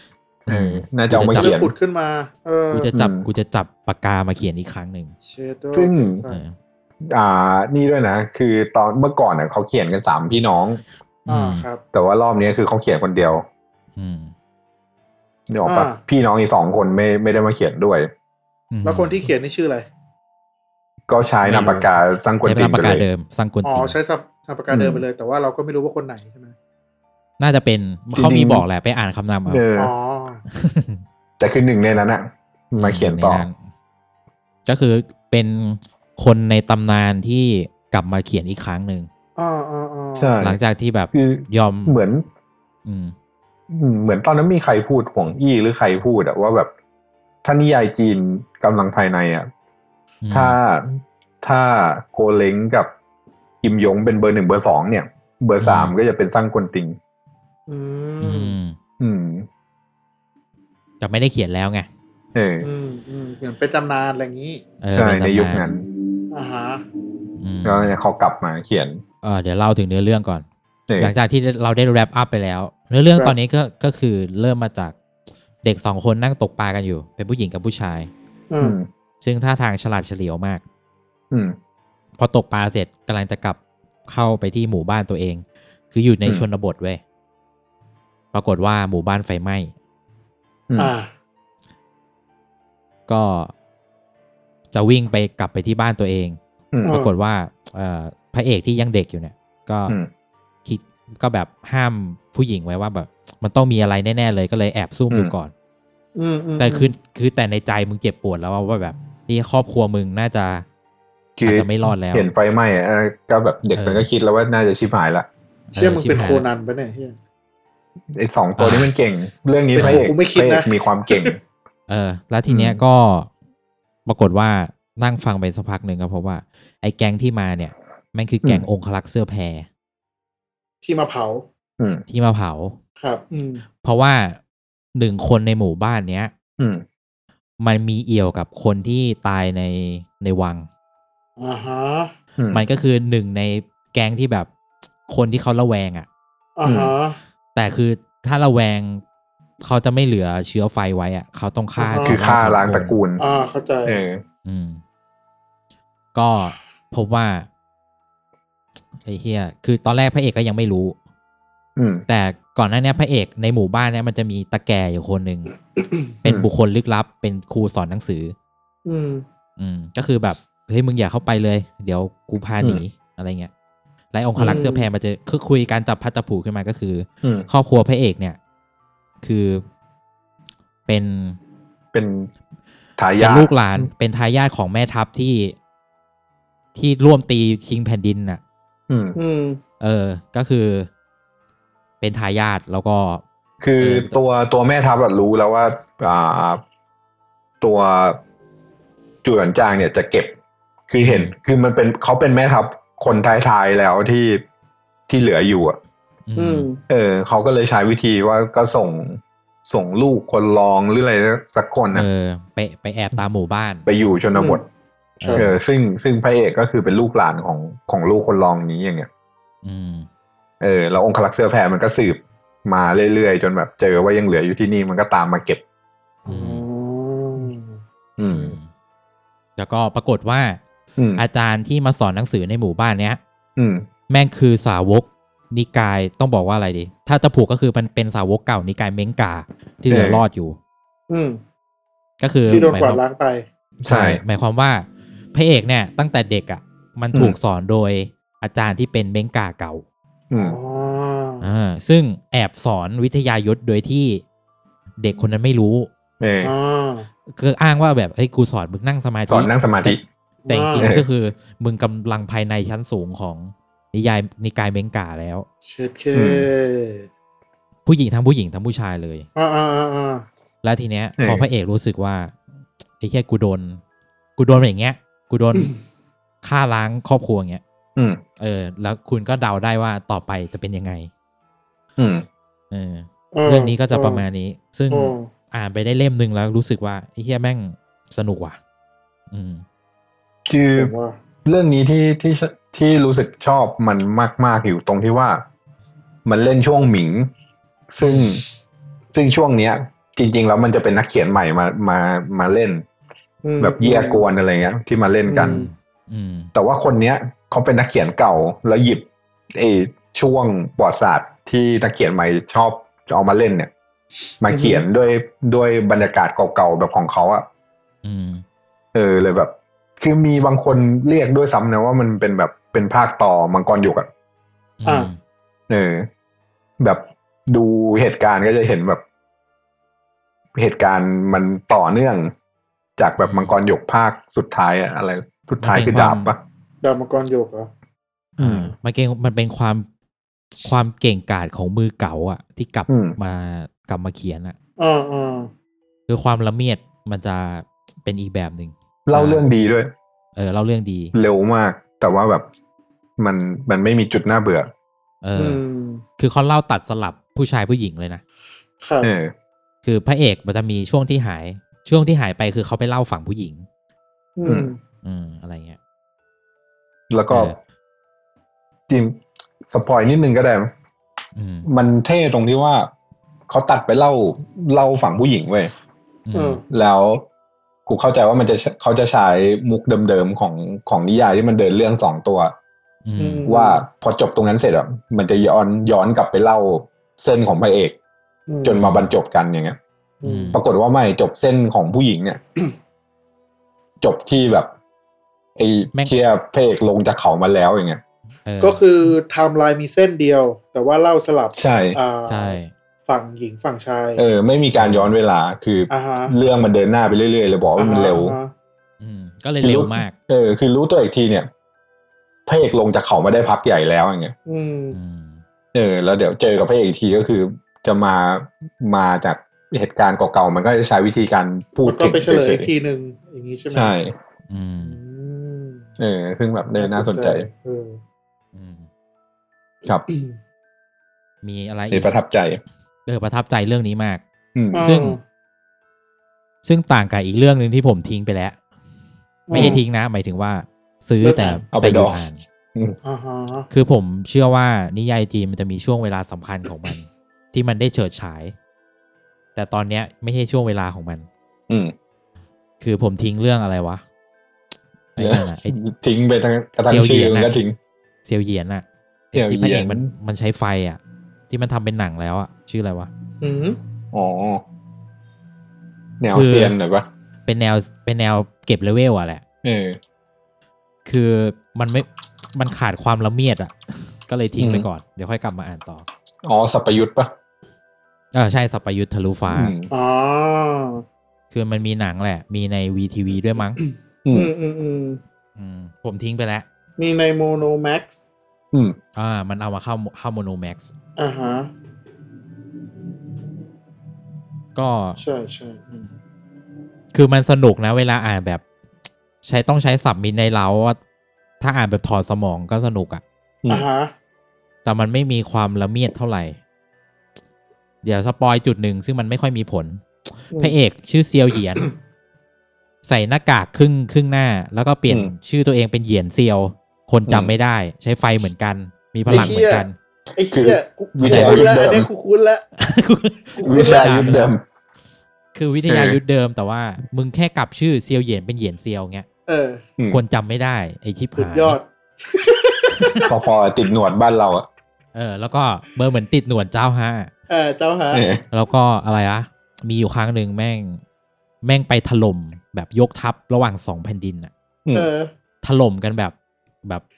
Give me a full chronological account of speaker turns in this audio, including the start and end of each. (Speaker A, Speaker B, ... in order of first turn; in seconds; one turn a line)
Speaker A: 0.5-1.6
Speaker B: 0.5-1.7
Speaker C: 1.3-2.9
Speaker A: 2.7-5.1
Speaker B: 2.9-3.3
Speaker C: 5.2-6.4
Speaker B: 5.7-6.2
Speaker A: 6.3-6.5
Speaker B: 7.1-10.8
Speaker A: 11.3-11.7
Speaker C: 11.3-11.8
Speaker B: 11.9-13.4
Speaker A: 13.9-14.3
Speaker B: 15.5-18.1
Speaker C: 15.6-16.0
Speaker A: 18.7-19.3
Speaker C: 18.8-19.9
Speaker B: 21.1-23.1
Speaker A: 21.4-21.9
Speaker A: 22.4-24.0
Speaker C: 23.6-26.5
Speaker B: 24.7-25.0
Speaker A: 27.4-29.6
Speaker B: 28.1-28.6
Speaker B: 29.5-29.9
Speaker C: 29.8-30.4
Speaker A: 30.5-31.0
Speaker B: 31.4-33.5
Speaker A: 32.8-33.6
Speaker A: 34.6-39.1
Speaker C: 39.4-40.4
Speaker B: 40.2-40.6
Speaker A: 40.4-42.0
Speaker B: 41.1-42.2
Speaker A: 42.9-43.1
Speaker B: 43.7-46.7
Speaker B: 47.4-49.5
Speaker A: 50.2-50.6
Speaker B: 50.3-52.9
Speaker B: 53.6-57.0
Speaker A: 55.6-55.9
Speaker C: 57.7-58.5
Speaker A: 58.2-58.8
Speaker B: 59.0-59.5
Speaker A: 61.0-61.9
Speaker B: 62.3-62.7
Speaker C: 62.6-64.6
Speaker A: 64.8-65.7
Speaker B: 65.0-65.8
Speaker C: 66.3-66.8
Speaker A: 67.4-68.0
Speaker B: 67.6-69.0
Speaker A: 69.2-70.4
Speaker B: 70.9-71.1
Speaker A: 71.0-75.0
Speaker A: 75.6-78.1
Speaker C: 78.5-78.8
Speaker B: 78.6-78.9
Speaker A: 79.2-80.6
Speaker B: 81.3-81.5
Speaker A: 82.2-87.0
Speaker A: 88.3-89.7
Speaker C: 90.8-91.1
Speaker A: 93.1-93.5
Speaker A: 94.7-100.0
Speaker C: 96.8-97.1
Speaker A: 100.6-105.5
Speaker C: 106.2-106.9
Speaker A: 106.6-110.6
Speaker B: 111.4-115.3
Speaker A: 111.4-112.3
Speaker A: 113.7-114.1
Speaker A: 115.7-116.5
Speaker C: 115.8-117.2
Speaker B: 118.1-121.4
Speaker A: 118.6-118.9
Speaker C: 119.7-121.3
Speaker A: 119.8-120.1
Speaker A: 121.9-123.3
Speaker B: 122.5-122.8
Speaker A: 124.0-129.7
Speaker C: 130.8-131.4
Speaker B: 131.8-132.0
Speaker A: 132.1-132.8
Speaker C: 133.0-133.6
Speaker A: 133.8-134.4
Speaker A: 134.9-136.3
Speaker B: 136.6-136.8
Speaker A: 137.6-140.7
Speaker C: 141.4-142.1
Speaker B: 142.4-142.6
Speaker A: 142.5-144.5
Speaker A: 145.1-146.1
Speaker C: 146.6-147.2
Speaker B: 146.6-146.9
Speaker A: 147.5-149.0
Speaker A: 149.6-152.9
Speaker C: 151.8-152.2
Speaker B: 152.0-153.2
Speaker C: 153.2-154.0
Speaker B: 153.8-154.2
Speaker A: 154.4-154.8
Speaker A: 156.1-157.5
Speaker A: 159.0-160.9
Speaker B: 161.8-162.0
Speaker A: 162.1-165.5
Speaker A: 166.2-168.3
Speaker C: 168.8-169.2
Speaker A: 169.6-173.5
Speaker A: 174.1-178.4
Speaker C: 174.4-174.9
Speaker B: 177.2-177.5
Speaker A: 179.2-179.6
Speaker A: 180.8-181.4
Speaker B: 181.9-182.3
Speaker B: 183.0-183.9
Speaker A: 183.2-185.6
Speaker A: 186.7-188.4
Speaker B: 188.9-189.2
Speaker C: 189.1-189.6
Speaker A: 189.8-190.9
Speaker A: 192.0-193.2
Speaker B: 193.6-196.6
Speaker A: 193.8-194.2
Speaker B: 197.6-198.2
Speaker B: 199.2-200.3
Speaker B: 200.9-204.4
Speaker A: 201.0-201.3
Speaker B: 205.1-205.8
Speaker A: 206.3-206.7
Speaker C: 206.4-206.8
Speaker B: 206.9-212.1
Speaker A: 211.9-213.9
Speaker B: 213.8-214.6
Speaker C: 214.3-214.6
Speaker C: 215.2-215.5
Speaker A: 215.2-215.6
Speaker B: 215.4-219.1
Speaker A: 219.6-220.1
Speaker B: 220.6-225.6
Speaker C: 226.2-227.8
Speaker A: 226.3-226.6
Speaker B: 228.2-228.6
Speaker A: 228.2-228.7
Speaker A: 229.6-230.6
Speaker B: 231.0-231.2
Speaker A: 231.2-233.2
Speaker B: 233.6-233.8
Speaker A: 234.1-240.6
Speaker B: 239.9-240.2
Speaker C: 241.1-241.4
Speaker A: 242.2-243.0
Speaker C: 242.5-243.4
Speaker B: 243.8-244.2
Speaker A: 243.8-249.8
Speaker B: 250.3-250.6
Speaker C: 250.3-251.4
Speaker A: 251.4-254.2
Speaker A: 255.0-255.9
Speaker B: 256.2-256.5
Speaker C: 256.4-257.1
Speaker A: 257.3-265.5
Speaker B: 259.3-260.0
Speaker C: 260.4-260.9
Speaker B: 260.8-261.1
Speaker C: 265.6-267.1
Speaker B: 266.1-266.5
Speaker A: 267.9-269.3
Speaker C: 269.4-270.2
Speaker A: 270.6-272.4
Speaker B: 271.2-271.4
Speaker A: 273.0-273.8
Speaker A: 274.4-275.7
Speaker A: 276.4-277.6
Speaker B: 277.9-278.2
Speaker A: 278.4-281.1
Speaker B: 282.0-282.2
Speaker A: 282.7-288.6
Speaker C: 283.3-284.2
Speaker C: 284.9-285.3
Speaker A: 289.3-289.6
Speaker B: 290.5-290.9
Speaker C: 290.7-291.2
Speaker B: 291.4-295.4
Speaker B: 296.2-297.3
Speaker B: 297.9-298.4
Speaker B: 299.1-302.9
Speaker C: 303.4-304.2
Speaker B: 303.6-305.7
Speaker C: 305.3-305.7
Speaker A: 305.7-306.5
Speaker B: 306.5-313.7
Speaker B: 314.4-317.4
Speaker C: 314.5-314.8
Speaker A: 318.0-318.4
Speaker B: 318.9-324.1
Speaker A: 324.8-325.2
Speaker B: 325.7-326.1
Speaker B: 326.8-329.0
Speaker B: 330.6-332.3
Speaker B: 333.0-336.4
Speaker A: 333.2-333.5
Speaker A: 335.6-336.3
Speaker C: 336.8-337.7
Speaker A: 338.4-339.9
Speaker A: 340.6-344.6
Speaker B: 342.9-343.2
Speaker C: 344.8-345.5
Speaker A: 346.1-349.4
Speaker B: 349.1-349.9
Speaker A: 350.4-351.1
Speaker B: 351.1-352.4
Speaker B: 353.2-354.7
Speaker A: 355.2-355.6
Speaker C: 355.4-356.0
Speaker A: 356.2-358.2
Speaker C: 358.8-359.1
Speaker B: 359.0-359.3
Speaker A: 359.8-363.7
Speaker C: 364.4-364.8
Speaker A: 365.0-365.8
Speaker B: 367.1-367.5
Speaker A: 367.3-367.6
Speaker B: 368.9-370.7
Speaker A: 371.3-371.7
Speaker B: 371.6-372.9
Speaker B: 373.5-375.7
Speaker A: 376.2-376.6
Speaker C: 376.3-376.6
Speaker B: 376.7-377.2
Speaker B: 377.9-382.5
Speaker A: 383.0-383.5
Speaker C: 383.2-383.8
Speaker B: 383.4-387.9
Speaker C: 388.5-388.8
Speaker B: 388.6-389.8
Speaker A: 388.8-389.1
Speaker C: 390.2-390.6
Speaker A: 390.2-390.6
Speaker B: 390.5-392.4
Speaker B: 394.0-394.7
Speaker B: 395.6-398.0
Speaker A: 398.4-398.8
Speaker C: 398.6-404.2
Speaker B: 401.6-402.0
Speaker A: 402.3-402.7
Speaker B: 404.2-408.4
Speaker A: 404.7-405.1
Speaker C: 405.9-406.4
Speaker C: 407.8-408.5
Speaker A: 409.0-410.1
Speaker B: 409.6-411.5
Speaker B: 412.5-414.3
Speaker C: 414.5-415.0
Speaker A: 414.9-415.4
Speaker B: 415.7-422.7
Speaker C: 421.9-423.9
Speaker B: 423.7-424.1
Speaker A: 424.5-425.0
Speaker C: 424.8-425.9
Speaker B: 426.0-427.5
Speaker C: 426.8-428.0
Speaker A: 428.5-428.9
Speaker A: 431.4-432.1
Speaker B: 431.9-432.6
Speaker A: 433.1-434.2
Speaker B: 434.5-434.8
Speaker C: 434.7-435.2
Speaker A: 434.8-435.2
Speaker A: 436.6-438.6
Speaker C: 439.5-439.8
Speaker B: 439.5-439.8
Speaker A: 439.5-442.4
Speaker C: 441.2-441.6
Speaker B: 441.7-442.2
Speaker C: 443.0-443.7
Speaker A: 443.7-448.5
Speaker A: 449.5-451.3
Speaker B: 451.7-451.9
Speaker A: 452.8-454.0
Speaker A: 455.1-457.5
Speaker B: 455.2-457.8
Speaker A: 458.2-463.1
Speaker B: 459.3-460.1
Speaker C: 463.4-463.8
Speaker B: 464.1-464.6
Speaker B: 466.2-467.1
Speaker A: 466.3-466.8
Speaker A: 467.4-469.4
Speaker B: 469.6-470.0
Speaker A: 471.0-476.1
Speaker B: 474.6-474.9
Speaker B: 476.4-477.3
Speaker A: 478.3-479.7
Speaker B: 479.5-479.9
Speaker C: 479.9-481.0
Speaker A: 481.5-483.8
Speaker C: 483.8-485.2
Speaker B: 484.2-484.5
Speaker A: 485.6-486.6
Speaker C: 487.0-488.2
Speaker B: 488.7-489.0
Speaker A: 489.1-490.9
Speaker C: 491.2-491.7
Speaker A: 494.8-495.2
Speaker C: 495.2-496.1
Speaker A: 497.1-498.6
Speaker A: 499.4-501.0
Speaker A: 501.6-503.2
Speaker C: 503.7-504.1
Speaker A: 504.8-506.6
Speaker A: 508.0-511.9
Speaker A: 513.0-520.0
Speaker B: 517.3-517.5
Speaker B: 519.3-519.6
Speaker C: 519.3-522.6
Speaker B: 520.5-522.1
Speaker A: 521.2-521.8
Speaker A: 522.8-524.5
Speaker C: 523.6-524.3
Speaker B: 523.6-524.6
Speaker A: 525.5-529.3
Speaker B: 525.9-526.2
Speaker C: 529.5-529.8
Speaker A: 530.1-531.8
Speaker C: 531.4-533.3
Speaker A: 533.0-533.2
Speaker B: 533.3-534.7
Speaker A: 535.1-537.3
Speaker C: 537.5-538.2
Speaker B: 538.1-538.4
Speaker A: 538.5-541.0
Speaker A: 541.6-544.5
Speaker C: 544.9-545.3
Speaker A: 545.6-547.0